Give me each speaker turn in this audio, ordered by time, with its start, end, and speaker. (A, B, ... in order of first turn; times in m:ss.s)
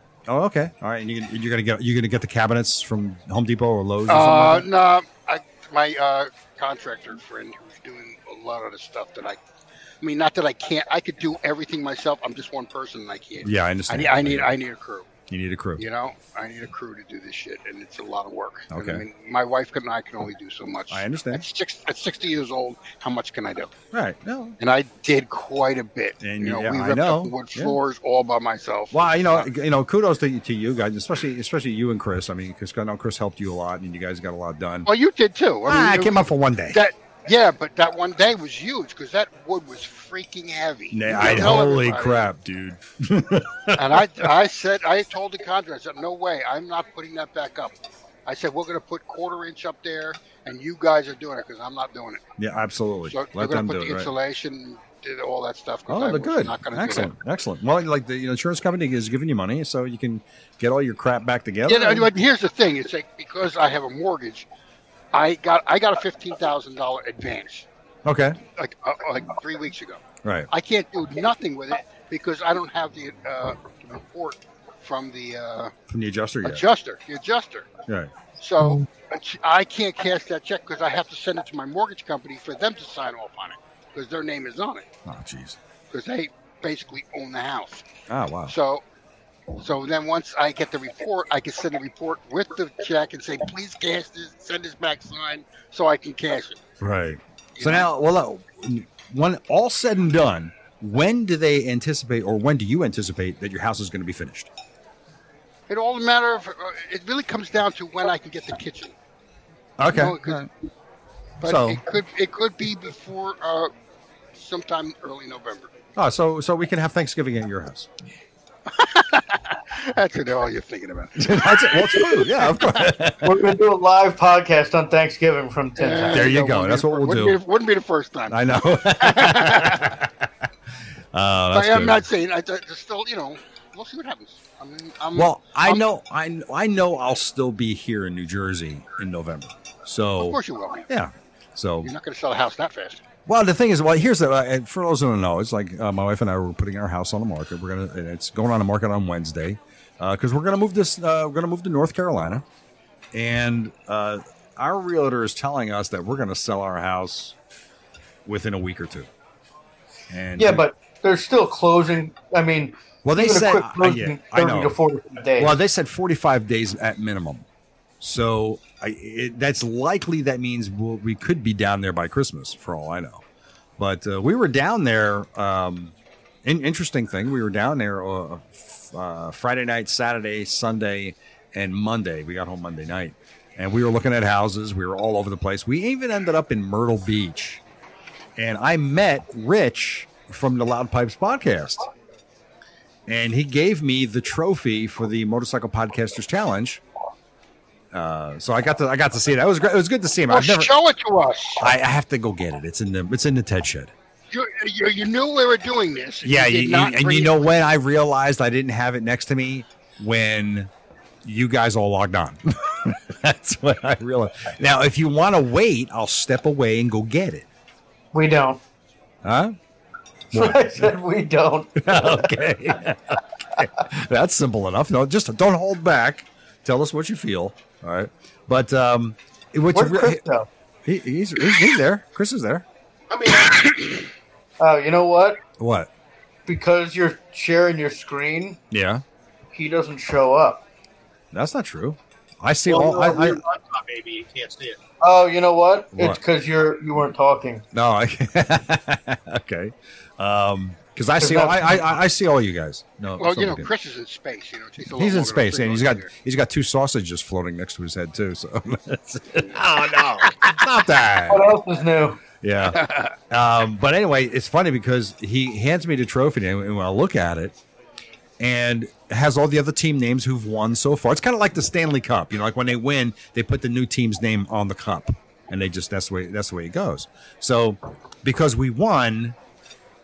0:00.3-0:04.7 A
0:04.1-0:09.4 B
0:10.0-0:15.1 B
0:13.4-0:14.6 A
0:15.3-0:15.8 A
0:15.8-0:23.7 B
0:18.7-0:19.0 A
0:20.9-0:21.4 A
0:23.9-0:24.6 A
0:24.6-0:29.5 B
0:26.2-0:27.8 A
0:28.9-0:34.9 A
0:34.9-0:42.3 B
0:35.7-0:36.8 A
0:40.9-0:44.3 A
0:43.7-0:47.8 B
0:48.3-0:52.2 B
0:52.4-0:54.1 A
0:53.1-0:57.1 B
0:55.9-1:02.1 A
1:01.7-1:04.5 B
1:05.1-1:07.7 B
1:08.0-1:08.4 A
1:08.6-1:15.7 B
1:10.2-1:10.5 A
1:15.9-1:16.6 A
1:16.4-1:17.7 B
1:17.9-1:18.1 A
1:18.4-1:24.9 B
1:25.0-1:25.6 A
1:25.9-1:27.8 B
1:28.1-1:28.5 A
1:28.5-1:28.8 B
1:29.6-1:36.6 B
1:36.8-1:44.5 A
1:37.6-1:37.9 B
1:45.7-1:49.0 B
1:49.8-1:50.5 A
1:49.9-1:50.5 B
1:51.4-1:53.7 B
1:51.4-1:51.8 A
1:54.4-1:55.7 B
1:56.0-1:57.9 A
1:58.7-2:02.9 B
2:01.2-2:03.5 A
2:03.2-2:06.3 C
2:05.8-2:10.0 B
2:06.1-2:07.4 A
2:08.3-2:10.3 A
2:11.1-2:12.1 A
2:11.5-2:15.8 B
2:15.1-2:20.4 A
2:20.2-2:20.9 B
2:20.9-2:21.9 A
2:21.8-2:23.0 B
2:23.3-2:32.4 A
2:33.1-2:37.4 A
2:38.3-2:39.1 A
2:40.1-2:40.6 A
2:40.4-2:45.6 C
2:43.0-2:44.8 A
2:45.4-2:47.4 A
2:48.0-2:53.2 A
2:53.8-3:07.6 A
3:08.4-3:11.9 A
3:13.1-3:16.8 A
3:17.9-3:20.7 A
3:20.3-3:21.7 B
3:21.6-3:23.9 A
3:24.3-3:27.5 B
3:26.2-3:30.7 A
3:31.2-3:37.5 A
3:38.1-3:38.6 C
3:39.2-3:39.6 A
3:40.3-3:40.9 A
3:40.3-3:42.4 C
3:41.8-3:50.2 A
3:49.7-3:50.5 C
3:50.8-3:52.7 A
3:53.1-3:54.0 D
3:54.6-3:55.4 C
3:55.6-3:55.9 A
3:56.5-3:58.6 C
3:58.7-3:59.0 A
3:59.5-4:00.6 C
4:01.3-4:03.4 A
4:02.7-4:04.8 D
4:05.0-4:07.6 C
4:06.0-4:06.2 A
4:07.7-4:13.7 A
4:11.2-4:11.8 C
4:13.2-4:16.1 B
4:14.9-4:21.6 A
4:20.3-4:20.6 B
4:21.3-4:22.2 C
4:22.4-4:27.6 A
4:22.7-4:23.2 B
4:28.4-4:39.4 A